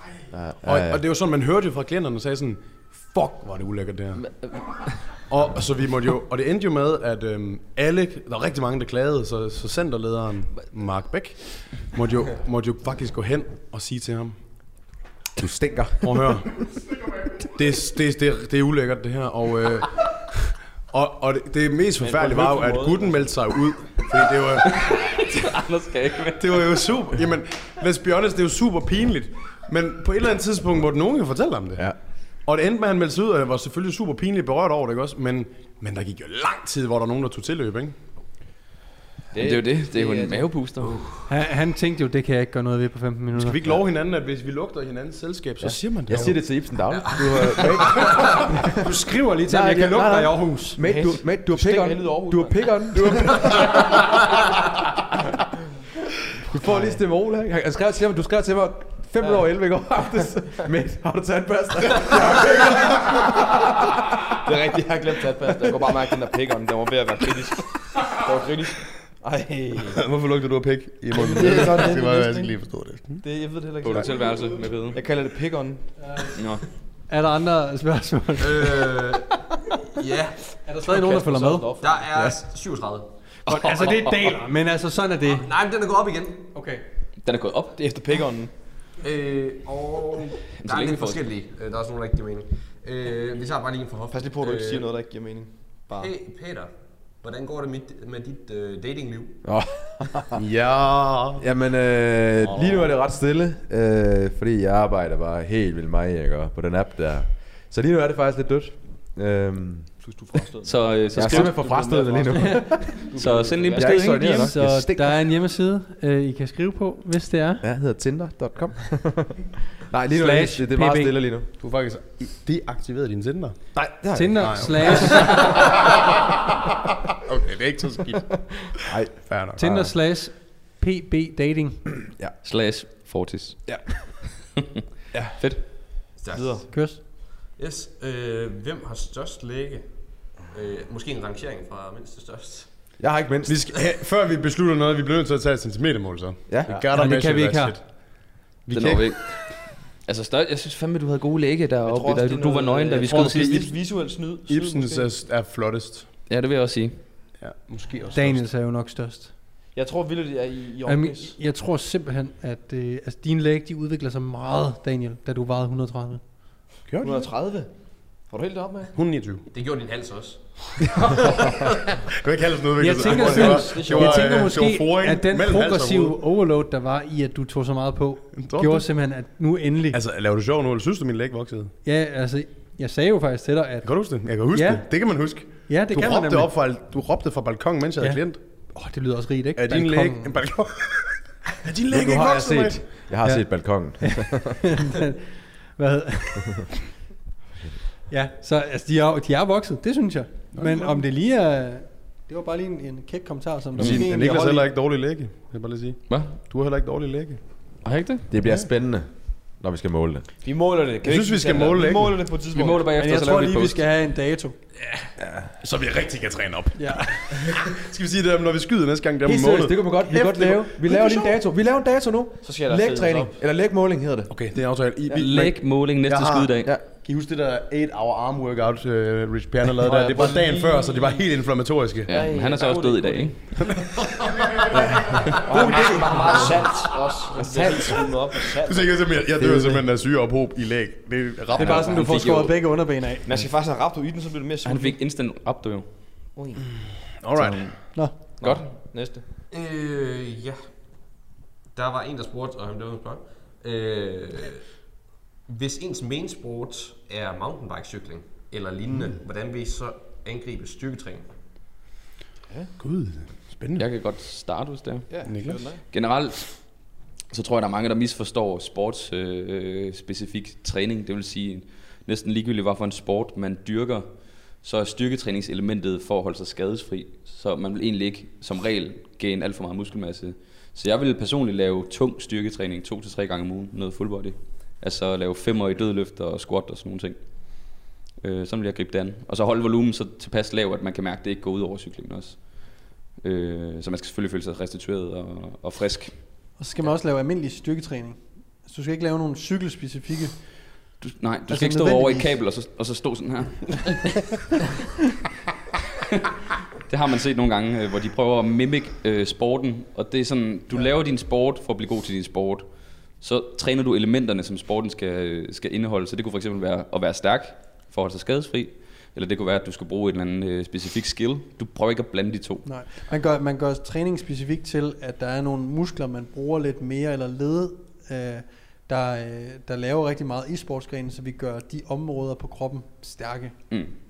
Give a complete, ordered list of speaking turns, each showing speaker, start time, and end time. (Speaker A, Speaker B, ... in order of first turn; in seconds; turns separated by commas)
Speaker A: 0.3-1.0, Speaker B: 0.6-14.4, Speaker A: 15.4-16.2, Speaker B: 16.0-16.6, Speaker B: 17.4-25.2, Speaker C: 22.0-23.3, Speaker D: 24.6-26.9, Speaker B: 26.4-31.9, Speaker B: 32.4-38.0, Speaker C: 39.3-40.6, Speaker D: 39.4-41.1, Speaker E: 41.3-43.6, Speaker B: 43.4-46.4, Speaker A: 45.6-48.6, Speaker E: 48.8-50.8, Speaker A: 49.5-54.1, Speaker C: 50.8-52.8, Speaker B: 53.1-53.7, Speaker A: 56.5-63.8, Speaker C: 64.4-70.0, Speaker B: 69.9-73.2, Speaker C: 71.1-72.4, Speaker E: 71.2-72.5, Speaker C: 73.2-76.4, Speaker D: 73.8-75.0, Speaker E: 76.0-76.3, Speaker D: 76.4-76.6, Speaker E: 77.1-79.0, Speaker F: 78.4-79.3, Speaker F: 80.0-80.6, Speaker E: 80.7-81.7, Speaker C: 80.8-82.1, Speaker F: 81.8-83.1, Speaker D: 83.5-84.3, Speaker E: 83.5-85.5, Speaker F: 85.3-86.5, Speaker E: 86.5-86.8, Speaker D: 87.2-87.8, Speaker C: 87.8-88.5, Speaker F: 89.0-94.9, Speaker D: 90.6-91.2, Speaker C: 94.1-96.1, Speaker F: 95.9-99.5, Speaker A: 99.4-100.4, Speaker B: 100.3-101.4, Speaker A: 101.4-110.0, Speaker C: 110.0-114.5, Speaker D: 110.7-111.8, Speaker A: 111.1-113.0, Speaker E: 112.4-112.8, Speaker D: 113.1-114.5, Speaker A: 113.8-115.3, Speaker E: 114.2-117.7, Speaker A: 117.6-121.5, Speaker E: 120.1-121.2, Speaker B: 121.6-123.7, Speaker A: 123.8-125.1, Speaker E: 124.1-125.6, Speaker B: 124.4-125.7, Speaker B: 127.2-129.6, Speaker A: 128.8-129.9, Speaker E: 129.6-131.9, Speaker D: 132.4-133.7, Speaker A: 135.1-135.4, Speaker D: 135.4-135.7, Speaker F: 136.2-143.0, Speaker C: 136.3-136.7, Speaker E: 136.7-137.0, Speaker A: 143.0-143.6, Speaker B: 143.5-149.1, Speaker A: 146.5-146.8, Speaker E: 146.9-147.8, Speaker D: 148.7-153.7, Speaker C: 151.9-155.1, Speaker B: 153.1-156.1, Speaker D: 156.3-157.1, Speaker B: 157.4-158.5, Speaker E: 158.1-159.3, Speaker C: 159.8-161.4, Speaker E: 160.9-166.2, Speaker B: 166.9-167.3, Speaker C: 167.0-169.0, Speaker B: 169.0-169.4, Speaker F: 169.5-170.9, Speaker B: 172.2-176.2, Speaker E: 172.8-180.0, Speaker C: 173.0-174.4, Speaker B: 178.3-178.9, Speaker B: 179.9-181.7, Speaker E: 181.8-183.9, Speaker B: 183.8-188.4, Speaker E: 184.5-184.9, Speaker E: 185.5-186.5, Speaker E: 188.0-190.4, Speaker B: 189.6-192.9, Speaker A: 191.9-194.6, Speaker E: 193.2-195.2, Speaker E: 195.8-196.7, Speaker E: 198.1-204.7, Speaker B: 200.6-201.0, Speaker B: 203.8-207.4, Speaker D: 206.1-206.4, Speaker D: 207.8-208.3, Speaker A: 208.3-210.3, Speaker B: 208.4-208.7, Speaker C: 210.4-212.9, Speaker B: 211.0-212.2, Speaker D: 212.5-213.8, Speaker E: 212.9-214.6, Speaker A: 215.2-215.5, Speaker B: 215.6-221.4, Speaker E: 216.8-217.1, Speaker A: 219.2-224.3, Speaker C: 222.4-223.4, Speaker B: 224.3-232.1, Speaker D: 225.1-226.7, Speaker C: 229.8-231.2, Speaker C: 232.1-233.4, Speaker D: 232.1-233.6, Speaker B: 233.8-234.8, Speaker A: 234.7-236.6, Speaker C: 235.4-239.2, Speaker A: 237.3-238.0, Speaker B: 237.4-242.1, Speaker A: 239.4-239.8, Speaker D: 241.5-242.6, Speaker E: 241.6-243.3, Speaker C: 243.3-245.0, Speaker D: 244.7-245.9, Speaker C: 246.3-246.6, Speaker B: 246.8-248.2, Speaker D: 247.3-248.7, Speaker C: 248.4-249.2, Speaker F: 249.5-250.7, Speaker F: 251.7-254.7, Speaker F: 255.5-261.3, Speaker B: 262.8-263.8, Speaker D: 263.8-296.2, Speaker C: 265.1-265.8, Speaker B: 265.3-265.6, Speaker E: 296.6-300.4, Speaker D: 301.0-304.7, Speaker E: 301.5-302.4, Speaker D: 306.9-322.6, Speaker E: 322.6-333.5